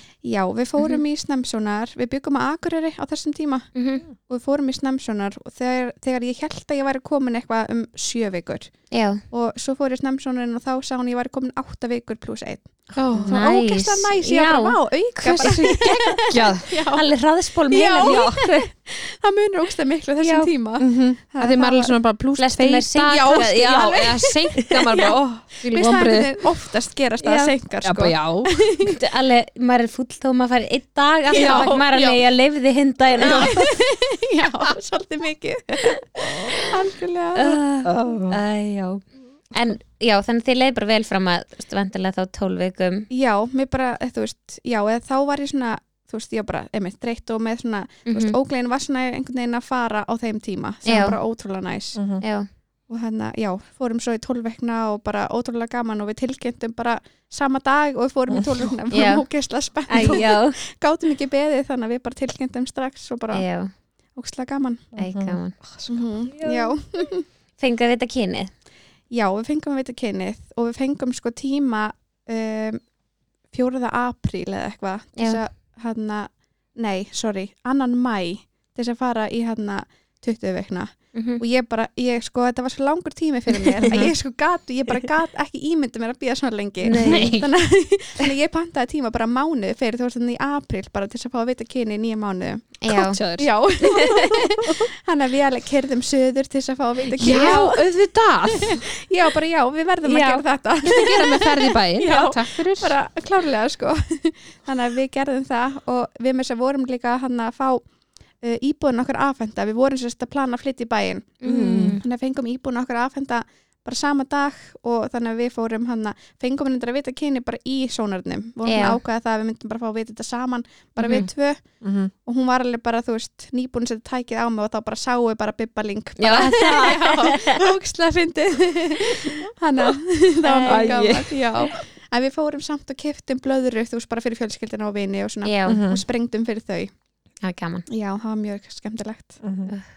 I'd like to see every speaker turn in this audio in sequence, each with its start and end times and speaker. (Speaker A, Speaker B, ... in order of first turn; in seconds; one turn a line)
Speaker A: 0.2-8.7
Speaker B: 3.7-4.0
Speaker B: 8.9-9.2
Speaker A: 9.3-17.0
Speaker C: 12.9-13.3
Speaker B: 13.2-14.8
Speaker C: 15.2-16.7
Speaker B: 15.4-16.3
Speaker B: 16.9-18.7
Speaker A: 17.7-21.9
Speaker B: 20.2-20.5
Speaker C: 20.8-26.4
Speaker B: 22.4-24.9
Speaker A: 23.1-24.3
Speaker A: 24.9-29.0
Speaker B: 27.2-27.5
Speaker C: 27.8-28.5
Speaker B: 28.8-33.7
Speaker A: 31.3-32.2
Speaker C: 31.3-31.7
Speaker C: 33.2-33.5
Speaker A: 33.2-37.6
Speaker B: 36.3-36.7
Speaker B: 37.4-43.1
Speaker C: 37.8-38.4
Speaker A: 43.1-52.0
Speaker B: 48.1-48.3
Speaker B: 50.8-51.2
Speaker C: 51.9-52.2
Speaker B: 52.2-52.5
Speaker A: 52.9-63.4
Speaker C: 58.3-58.7
Speaker B: 58.9-59.2
Speaker B: 59.9-60.5
Speaker B: 63.3-63.7
Speaker A: 64.2-64.9
Speaker C: 64.9-66.0
Speaker B: 65.0-65.5
Speaker A: 65.9-67.2
Speaker B: 66.4-66.7
Speaker B: 67.6-68.5
Speaker A: 69.1-72.8
Speaker A: 73.5-97.8
Speaker B: 81.1-81.4
Speaker C: 83.8-84.1
Speaker B: 86.8-87.4
Speaker C: 86.9-87.5
Speaker B: 92.8-93.2
Speaker C: 92.9-93.5
Speaker C: 97.2-98.8
Speaker B: 97.3-97.6
Speaker A: 98.5-107.8
Speaker B: 100.0-100.4
Speaker C: 100.8-102.9
Speaker A: 108.4-111.4
Speaker B: 111.4-112.0
Speaker C: 111.4-112.0
Speaker A: 112.0-121.6
Speaker B: 118.7-119.0
Speaker C: 121.8-122.1
Speaker A: 122.2-136.9
Speaker B: 126.2-127.6
Speaker C: 126.4-126.9
Speaker B: 130.4-131.0
Speaker C: 130.7-131.7
Speaker B: 135.4-135.8
Speaker C: 135.7-136.0
Speaker B: 137.4-137.8
Speaker A: 137.9-139.4
Speaker C: 139.4-139.7